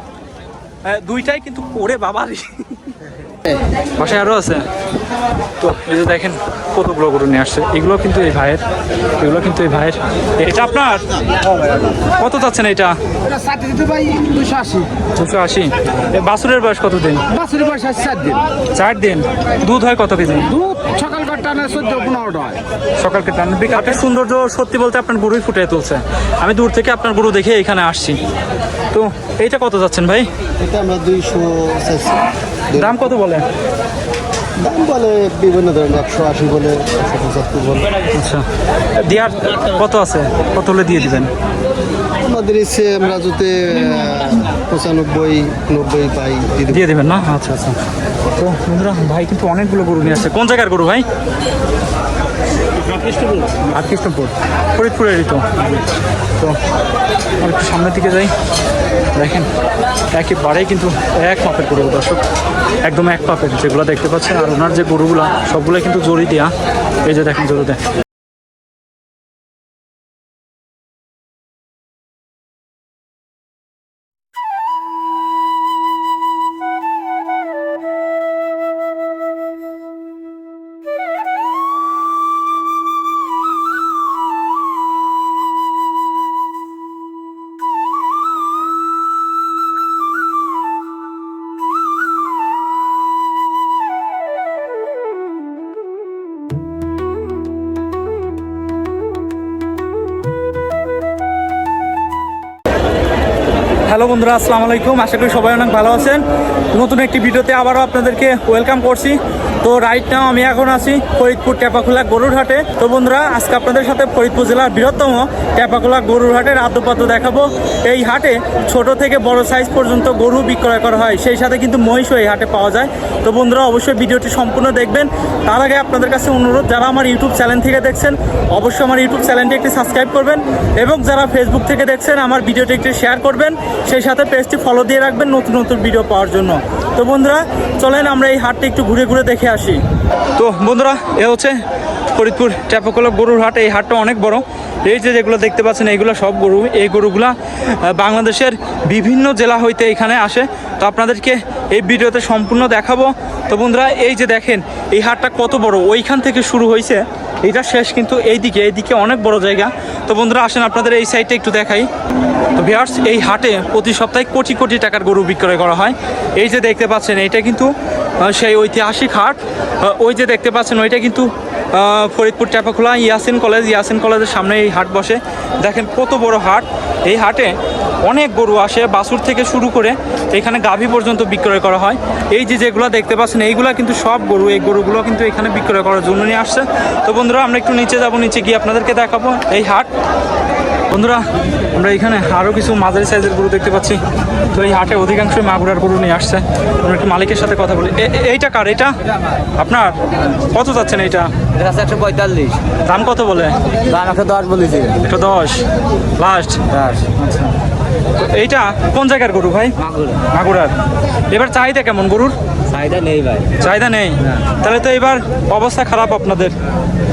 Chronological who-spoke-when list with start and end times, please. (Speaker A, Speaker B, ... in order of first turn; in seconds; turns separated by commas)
Speaker A: 0.8-3.0, Speaker A: 4.0-4.7, Speaker A: 5.6-8.6, Speaker A: 9.2-11.1, Speaker A: 12.1-13.0, Speaker B: 13.2-14.9, Speaker A: 15.1-17.2, Speaker B: 17.3-18.4, Speaker A: 18.8-20.5, Speaker B: 20.5-22.6, Speaker A: 23.0-28.2, Speaker A: 28.9-30.3, Speaker C: 30.6-33.0, Speaker A: 32.8-33.5, Speaker C: 34.6-38.0, Speaker A: 38.1-38.5, Speaker A: 39.0-41.3, Speaker C: 42.2-46.9, Speaker A: 46.7-47.8, Speaker A: 48.4-51.1, Speaker D: 52.8-53.5, Speaker A: 53.7-55.7, Speaker A: 57.4-58.3, Speaker A: 59.1-59.5, Speaker A: 60.1-62.2, Speaker A: 62.9-67.8, Speaker A: 103.8-139.8, Speaker A: 140.3-161.9, Speaker A: 162.6-189.9, Speaker A: 190.9-194.0, Speaker A: 194.5-199.0, Speaker A: 199.6-201.3, Speaker D: 201.6-202.6, Speaker A: 202.8-203.6, Speaker D: 203.9-205.0, Speaker A: 205.0-205.7, Speaker A: 206.2-206.6, Speaker D: 206.7-207.1, Speaker A: 207.1-207.5, Speaker A: 208.1-209.8, Speaker D: 209.8-210.2, Speaker A: 210.3-210.7, Speaker A: 211.3-212.4, Speaker D: 212.7-213.5, Speaker A: 213.6-216.6